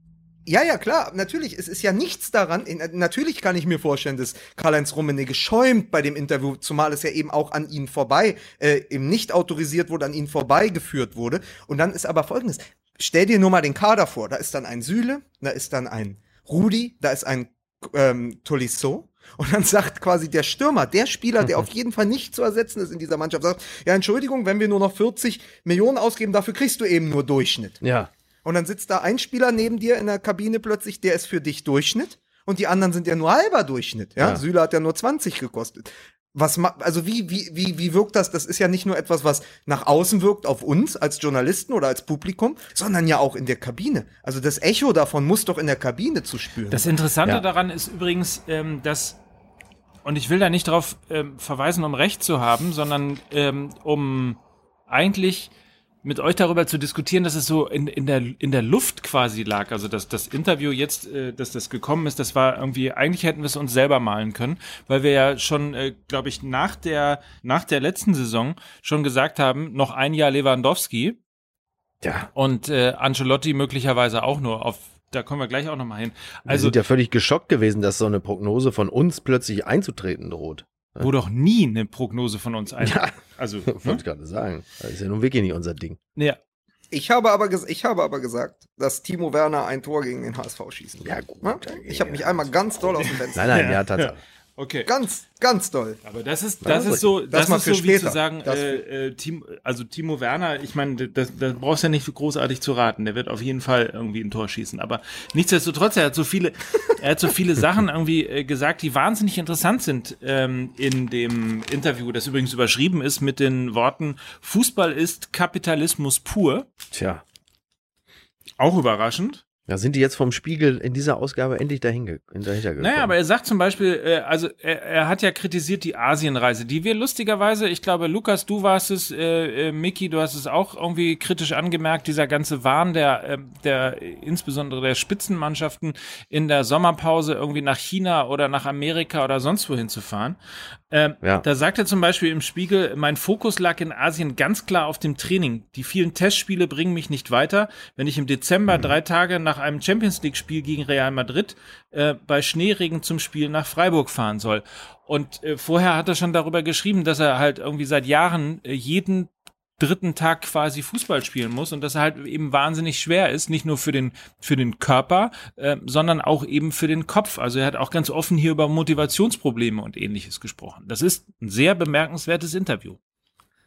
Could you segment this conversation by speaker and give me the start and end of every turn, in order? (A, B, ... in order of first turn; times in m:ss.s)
0:00.5-0:27.8 A
0:27.8-0:28.1 B
0:28.4-0:47.0 A
0:46.7-0:49.2 C
0:50.0-0:55.5 C
0:56.0-1:11.2 C
1:12.0-1:12.3 B
1:12.4-1:16.8 C
1:16.5-1:21.1 B
1:21.0-1:24.0 C
1:22.8-1:23.1 B
1:23.7-1:26.0 B
1:26.9-1:33.6 A
1:31.0-1:34.2 B
1:33.2-1:34.9 C
1:34.9-1:36.0 A
1:36.0-1:56.7 C
1:36.6-1:37.0 B
1:37.3-1:38.8 A
1:56.9-1:57.2 B
1:58.6-1:59.4 C
1:59.7-2:03.1 B
2:02.8-2:20.4 C
2:20.9-2:53.0 C